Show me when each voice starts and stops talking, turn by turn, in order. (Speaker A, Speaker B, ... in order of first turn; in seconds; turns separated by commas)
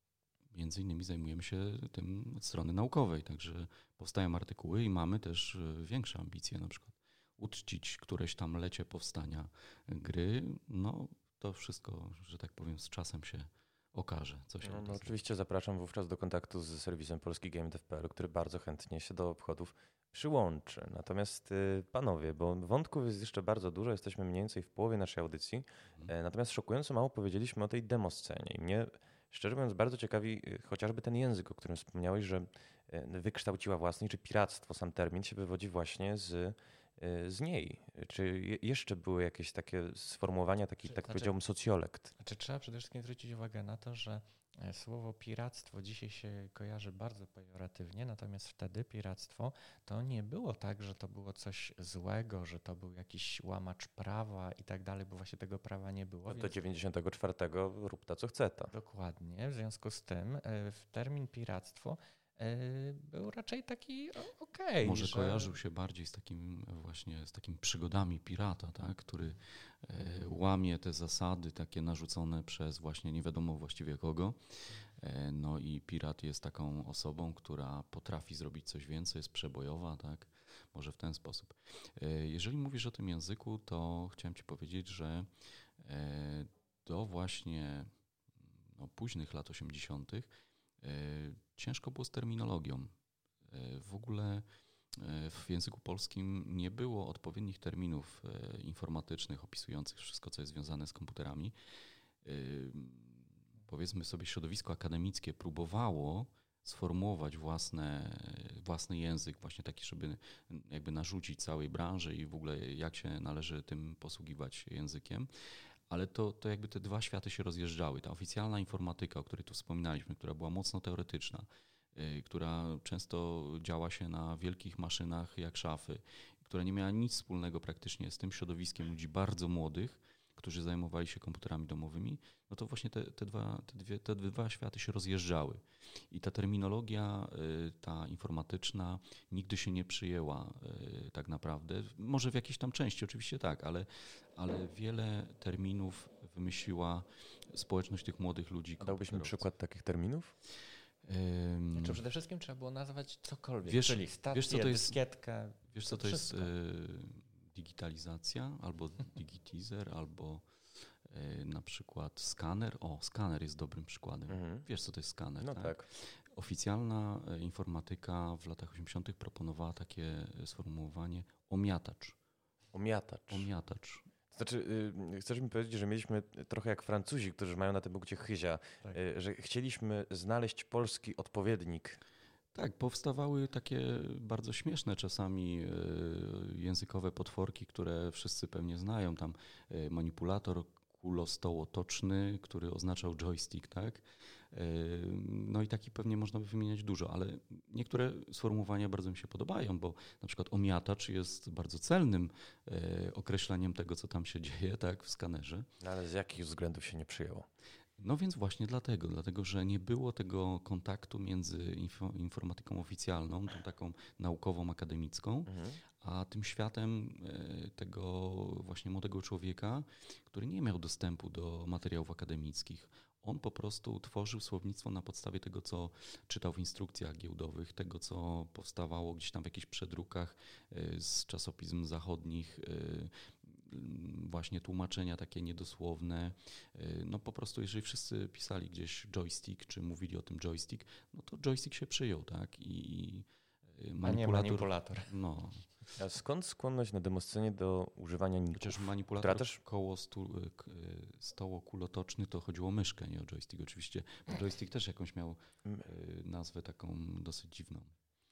Speaker A: 0.5-15.2, Speaker B: 14.6-42.1, Speaker C: 40.9-41.3, Speaker C: 42.2-56.5, Speaker B: 56.3-58.7, Speaker C: 58.7-65.6, Speaker A: 64.8-74.4, Speaker A: 75.0-85.3, Speaker A: 85.8-87.9, Speaker A: 88.7-90.3, Speaker A: 90.8-92.9, Speaker A: 93.5-101.5, Speaker A: 102.2-115.3, Speaker A: 115.9-149.4, Speaker B: 148.8-150.3, Speaker A: 151.0-152.0, Speaker C: 151.8-156.5, Speaker A: 153.7-155.0, Speaker A: 155.7-160.4, Speaker A: 161.1-172.2, Speaker B: 164.3-164.7, Speaker B: 165.4-165.8, Speaker B: 172.7-173.5, Speaker A: 173.3-174.1, Speaker B: 174.3-182.0, Speaker A: 182.5-205.7, Speaker B: 205.8-207.5, Speaker A: 208.0-245.7, Speaker B: 215.5-215.8, Speaker C: 244.0-245.1, Speaker B: 246.0-249.6, Speaker A: 248.6-257.9